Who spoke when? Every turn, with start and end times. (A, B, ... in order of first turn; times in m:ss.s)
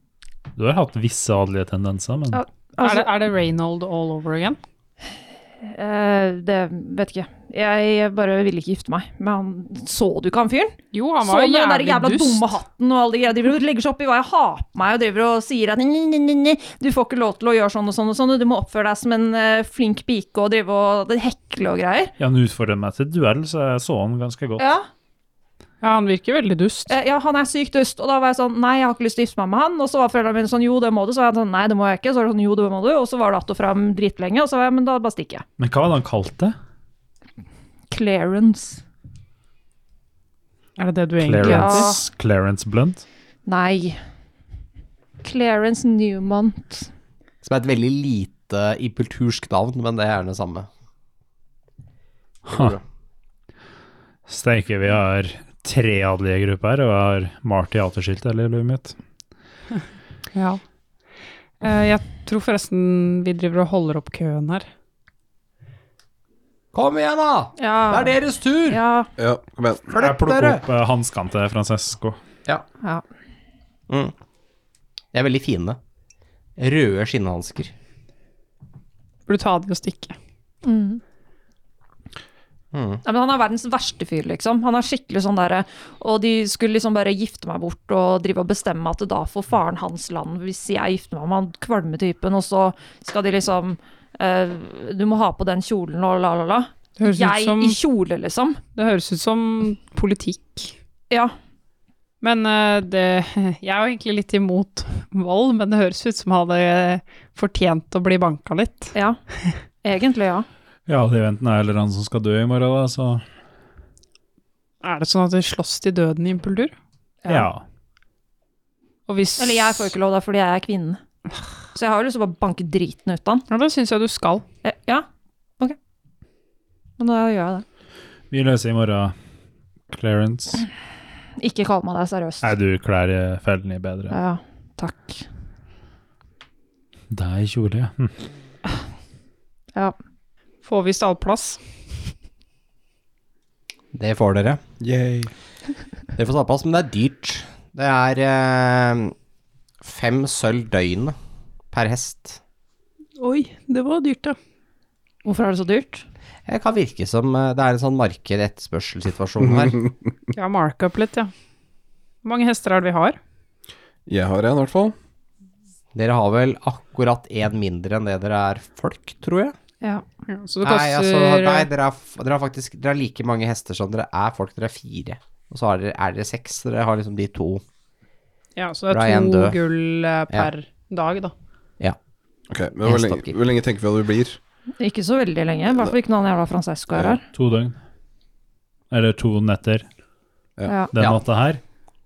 0:00.6-0:02.4 A
0:02.3-0:03.1 B
0:02.8-0:04.6 C
0:05.6-0:22.1 B
0:10.9-0:12.5 C
0:22.2-0:24.6 A
0:24.6-0:24.9 B
0:25.8-0:26.9 C
0:26.9-0:35.4 B
0:35.6-0:36.6 A
0:37.9-0:38.8 B
0:40.8-0:42.0 C
0:41.2-0:43.0 A
0:41.4-0:41.9 B
0:43.5-0:44.0 B
0:45.2-0:46.9 B
0:47.4-0:50.7 D
0:52.5-0:52.8 A
0:52.5-0:52.8 D
0:54.3-0:59.0 A
1:00.3-1:00.6 C
1:01.6-1:04.7 C
1:06.7-1:08.8 D
1:07.6-1:08.1 B
1:08.7-1:09.1 B
1:09.2-1:09.9 E
1:09.9-1:10.6 D
1:10.0-1:12.2 A
1:13.9-1:14.1 D
1:15.1-1:15.8 D
1:16.6-1:17.7 D
1:19.3-1:20.2 C
1:20.6-1:21.0 B
1:22.7-1:23.0 D
1:23.0-1:38.6 B
1:37.0-1:37.8 C
1:38.8-1:40.7 C
1:41.1-1:41.4 B
1:42.2-1:48.9 C
1:48.9-1:49.2 B
1:49.8-1:50.5 B
1:50.9-1:53.2 A
1:54.8-1:56.7 C
1:57.2-1:57.5 B
1:57.3-1:57.6 A
1:59.1-1:59.9 C
1:59.4-2:01.0 B
2:01.7-2:03.5 B
2:03.5-2:04.4 C
2:04.6-2:05.1 B
2:07.0-2:07.6 B
2:08.3-2:09.1 A
2:09.9-2:10.6 A
2:11.4-2:12.5 B
2:12.4-2:14.2 A
2:14.1-2:15.2 B
2:17.1-2:18.1 A
2:20.6-2:21.6 C
2:23.9-2:24.6 D
2:24.8-2:25.3 E
2:26.2-2:29.1 D
2:29.8-2:31.2 D
2:31.7-2:32.4 D
2:33.2-2:34.4 C
2:35.2-2:36.0 B
2:36.5-2:39.8 D
2:40.3-2:41.3 C
2:42.2-2:43.2 C
2:44.1-2:45.0 E
2:45.9-2:49.6 D
2:50.3-2:51.7 C
2:50.6-2:57.6 D
2:58.6-3:01.3 C
2:58.9-2:59.6 D
3:02.5-3:04.4 E
3:02.8-3:03.4 D
3:04.8-3:07.2 B
3:06.9-3:07.2 E
3:07.3-3:07.8 A
3:08.9-3:09.8 A
3:10.7-3:10.9 B
3:10.9-3:11.6 A